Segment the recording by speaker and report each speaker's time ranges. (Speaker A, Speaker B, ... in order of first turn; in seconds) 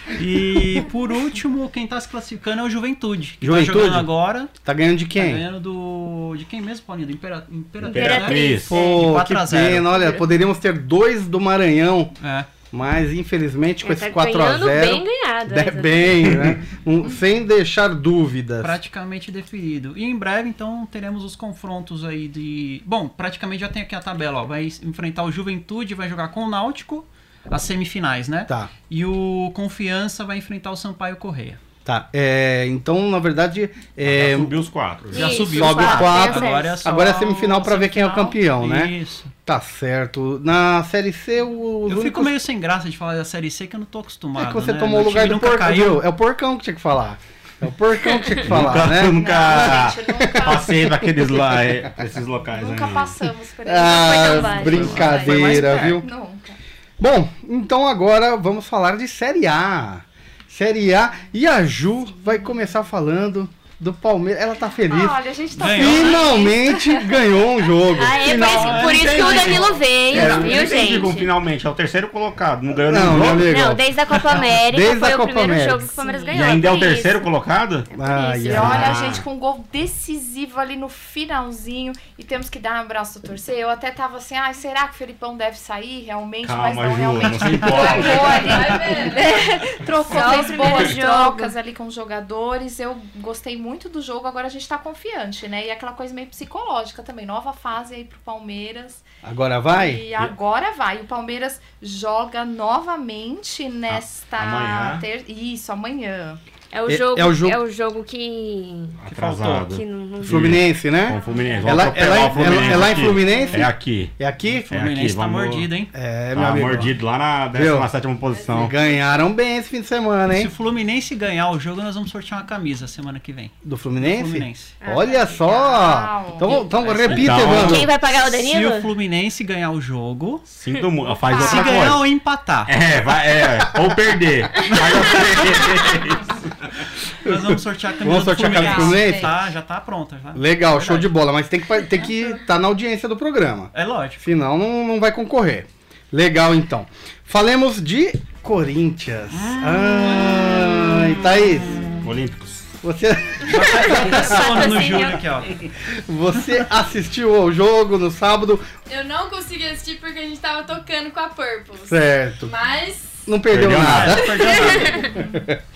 Speaker A: 0.1-4.5, 5.2-10.1, 12.2-12.5, 18.6-31.6, 35.1-39.3, 41.9-46.0, 54.6-55.9, 65.6-66.3, 68.5-69.6, 87.4-87.8, 109.1-109.7, 114.5-115.9, 120.3-124.8, 126.7-130.4, 131.3-132.7, 137.2-141.1, 143.7-144.2, 149.3-152.0, 153.5-155.6, 163.7-165.1
Speaker B: 3.4-4.1, 4.6-5.5, 8.7-12.1, 12.7-18.8, 31.9-34.5, 35.5-38.9, 39.5-42.3, 44.4-49.6, 53.7-56.1, 57.0-65.2, 65.7-69.0, 70.1-70.5, 72.8-73.8, 74.5-75.9, 77.9-78.9, 99.2-100.1, 106.9-107.6, 110.2-114.7, 115.9-117.0, 117.5-117.9, 118.5-120.5, 123.6-127.9, 137.3-139.3, 140.3-151.8, 152.8-154.8, 155.9-158.7, 161.8-162.5, 163.3-164.6, 165.2-165.6
Speaker C: 7.8-8.8, 34.0-35.6, 48.4-53.2, 69.3-73.6, 76.3-77.9, 78.5-79.2, 86.4-88.8, 103.9-105.0, 109.0-115.7, 116.3-118.7, 127.1-127.9, 130.5-132.1, 132.7-136.5, 152.0-152.7, 163.5-164.3
Speaker D: 7.8-9.0, 13.8-16.3, 35.1-36.8, 53.8-55.5, 67.9-71.3, 73.4-77.2, 78.1-78.8, 90.0-91.5, 106.7-109.0, 109.7-110.5, 124.8-125.7, 127.2-128.9, 153.5-155.3
Speaker E: 49.0-50.8, 52.5-56.6, 64.9-67.1, 69.1-69.8, 76.0-76.4, 78.4-99.0, 99.7-106.4, 125.4-126.6, 131.2-131.9, 138.5-139.3
Speaker F: 87.8-89.3, 118.3-119.0, 158.9-163.3, 164.2-165.1